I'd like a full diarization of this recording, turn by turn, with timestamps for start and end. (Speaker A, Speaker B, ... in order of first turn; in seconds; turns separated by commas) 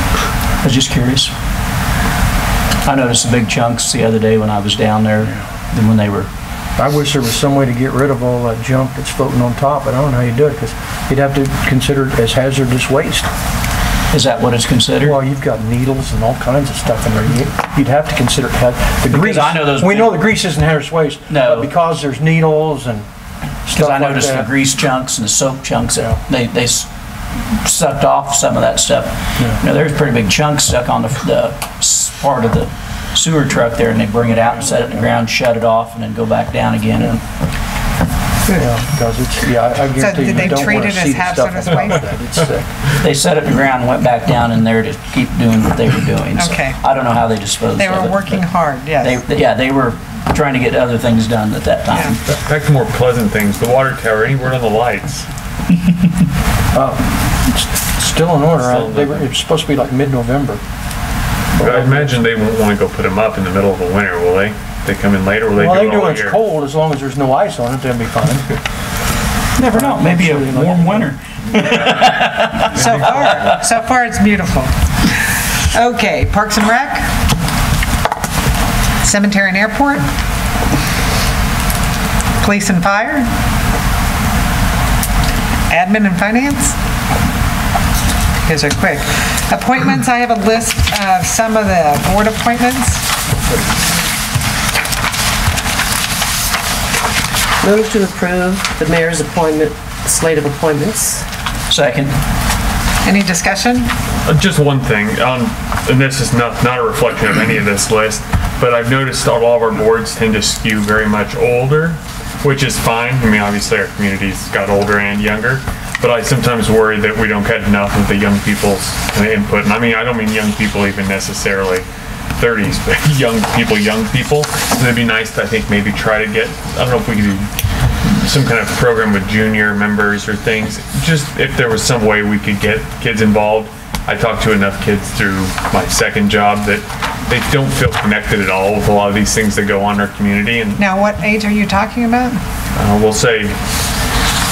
Speaker A: 0.6-1.3, Speaker A: 2.8-6.3, Speaker B: 6.8-13.3, Speaker A: 14.1-15.2, Speaker B: 15.0-23.1, Speaker A: 19.1-20.2, Speaker A: 21.3-21.7, Speaker B: 23.6-24.5, Speaker A: 23.7-37.2, Speaker B: 34.5-35.0, Speaker B: 38.5-42.7, Speaker C: 40.0-42.1, Speaker A: 43.0-48.4, Speaker C: 46.3-46.8, Speaker C: 47.7-49.2, Speaker A: 49.0-52.2, Speaker D: 52.3-55.3, Speaker B: 56.7-60.6, Speaker D: 58.5-59.3, Speaker B: 61.5-62.2, Speaker D: 61.6-66.4, Speaker B: 65.5-68.6, Speaker A: 69.6-73.3, Speaker B: 69.7-71.1, Speaker D: 71.6-72.0, Speaker C: 72.7-77.1, Speaker D: 72.8-73.0, Speaker C: 79.0-80.1, Speaker C: 82.4-83.3, Speaker C: 85.7-86.7, Speaker C: 88.4-93.0, Speaker E: 97.6-101.2, Speaker A: 101.7-102.2, Speaker C: 103.0-103.9, Speaker D: 104.2-121.8, Speaker D: 122.4-127.5, Speaker D: 128.0-140.8, Speaker C: 140.8-142.4, Speaker D: 142.7-143.6